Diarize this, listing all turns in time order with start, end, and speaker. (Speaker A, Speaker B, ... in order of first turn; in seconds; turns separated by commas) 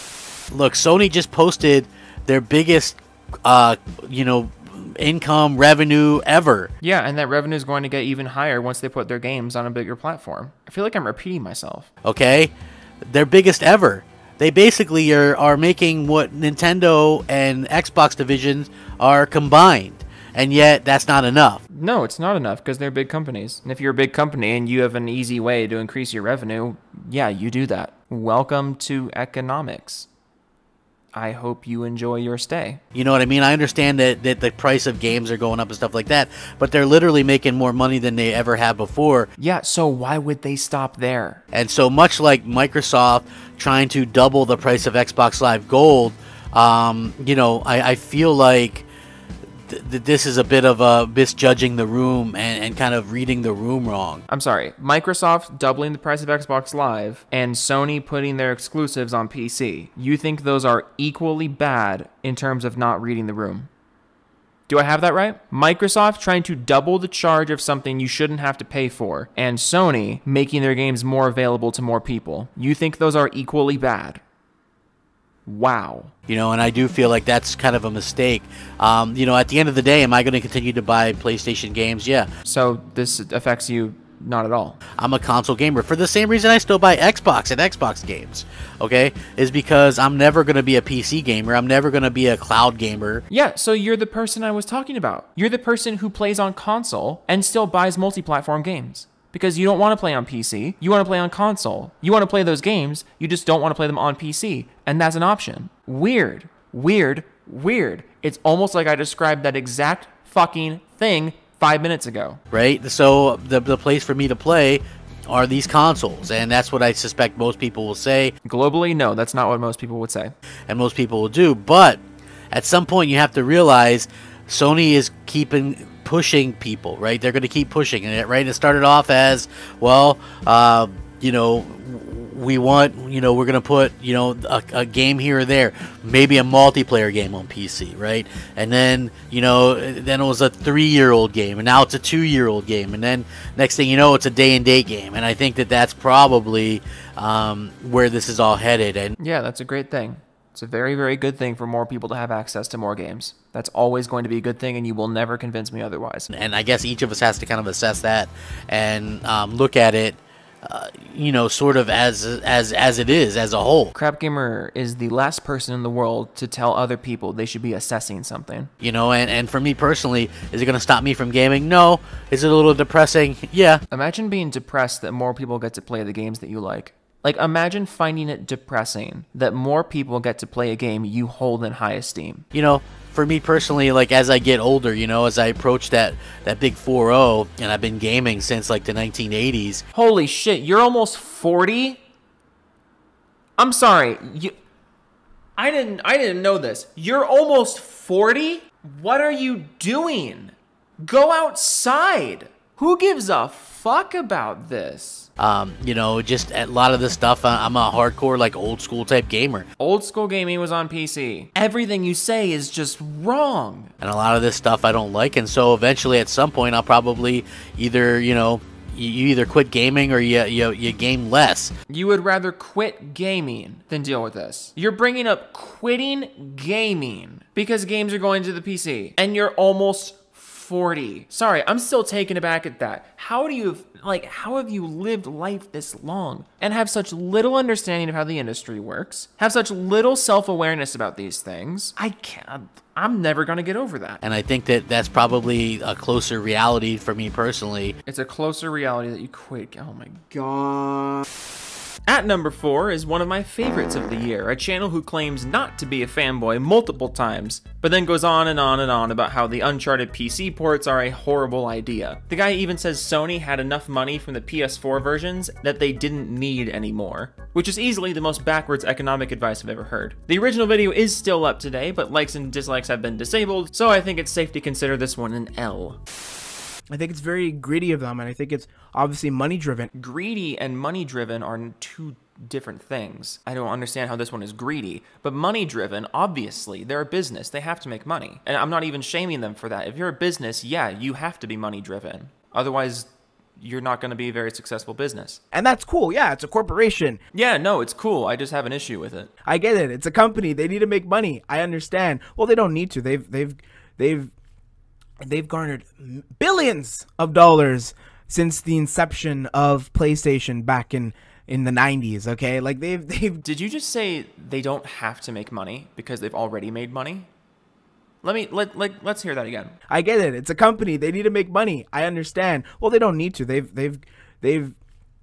Speaker A: 0.5-6.7, Speaker B: 6.8-11.9, Speaker A: 12.0-12.5, Speaker A: 13.0-21.6, Speaker B: 21.7-30.1, Speaker B: 31.1-32.8, Speaker A: 32.9-39.3, Speaker B: 39.4-41.4, Speaker A: 41.5-48.9, Speaker A: 49.7-54.2, Speaker B: 54.3-63.7, Speaker B: 64.7-74.2, Speaker B: 75.5-76.1, Speaker A: 76.3-82.3, Speaker B: 82.4-84.8, Speaker A: 85.0-93.2, Speaker B: 93.3-112.4, Speaker A: 112.5-118.3, Speaker B: 118.4-120.3, Speaker A: 120.7-122.0, Speaker A: 122.5-149.1, Speaker B: 149.2-156.3, Speaker A: 156.3-163.9, Speaker B: 163.9-168.7, Speaker A: 168.8-173.8, Speaker B: 173.9-182.4, Speaker A: 182.5-189.8, Speaker B: 189.9-192.0, Speaker B: 193.6-194.5, Speaker B: 195.6-205.3, Speaker A: 205.4-209.7, Speaker B: 209.8-213.9, Speaker A: 214.0-221.7, Speaker B: 221.9-244.2, Speaker A: 244.2-247.9, Speaker B: 248.1-251.0, Speaker B: 252.1-276.0, Speaker C: 276.9-279.9, Speaker B: 279.9-295.4, Speaker C: 295.5-297.2, Speaker B: 297.3-299.3, Speaker C: 299.4-304.3, Speaker C: 305.2-313.4, Speaker B: 313.4-317.3, Speaker B: 318.2-319.7, Speaker C: 319.9-324.8